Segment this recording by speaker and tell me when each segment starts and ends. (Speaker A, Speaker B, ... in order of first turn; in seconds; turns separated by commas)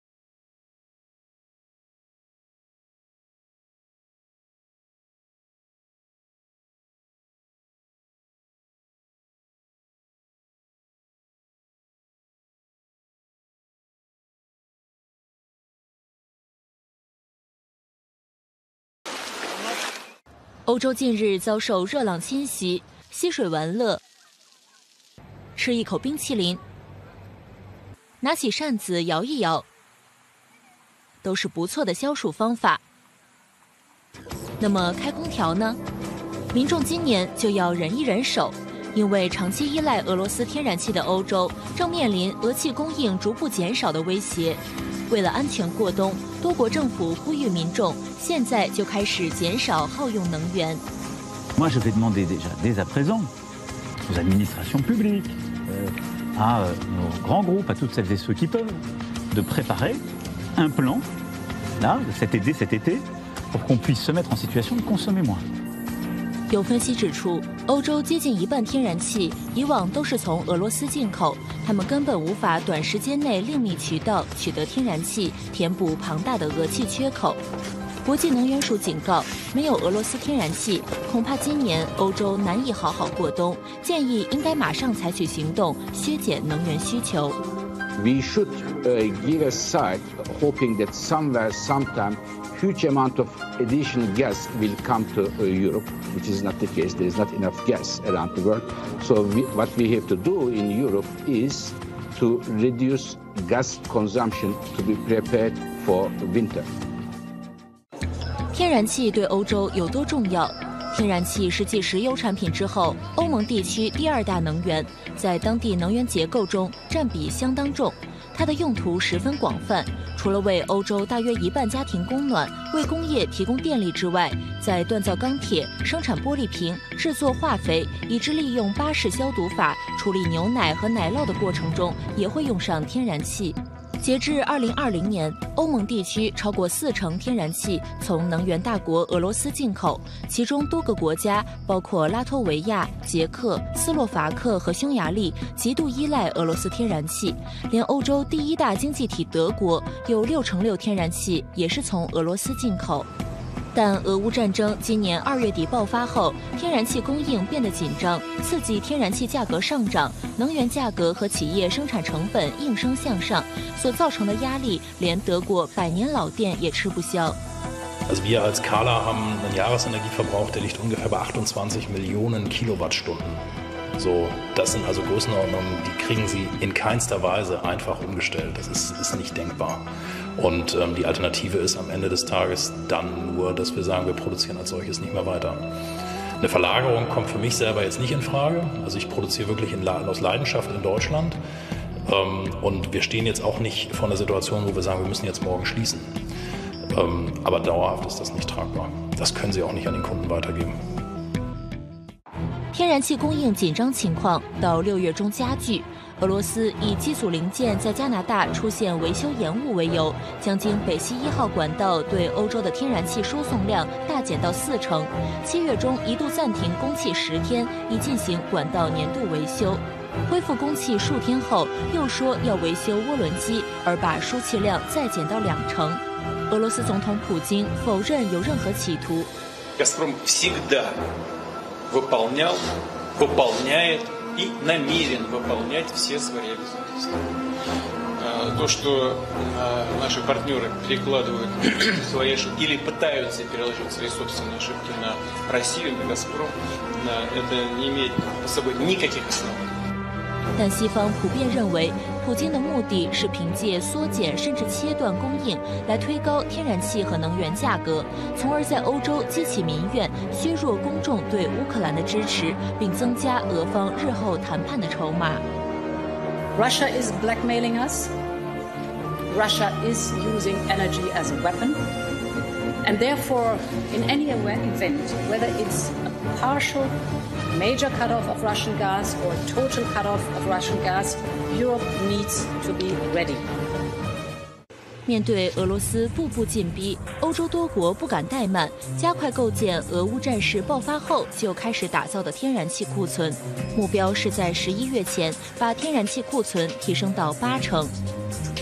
Speaker A: 20.6-24.0, Speaker A: 25.6-26.6, Speaker A: 28.2-29.6, Speaker A: 31.2-32.8, Speaker A: 34.6-35.8, Speaker A: 36.5-50.8, Speaker B: 51.5-53.3, Speaker B: 54.1-60.0, Speaker B: 60.5-61.0, Speaker B: 61.8-65.4, Speaker A: 66.5-77.4, Speaker A: 78.0-87.4, Speaker C: 88.0-106.7, Speaker A: 108.5-153.1, Speaker A: 153.7-167.4, Speaker D: 168.1-173.4, Speaker D: 173.9-179.8, Speaker D: 180.4-185.6, Speaker D: 186.4-191.4, Speaker D: 192.1-196.1, Speaker D: 196.9-200.8, Speaker A: 202.7-229.3, Speaker E: 229.8-230.9, Speaker E: 231.9-232.6, Speaker E: 233.2-237.2, Speaker E: 238.2-249.6, Speaker A: 250.6-265.4, Speaker F: 266.5-268.1, Speaker F: 269.3-271.8, Speaker F: 272.8-276.9, Speaker F: 277.5-283.5, Speaker A: 285.1-297.9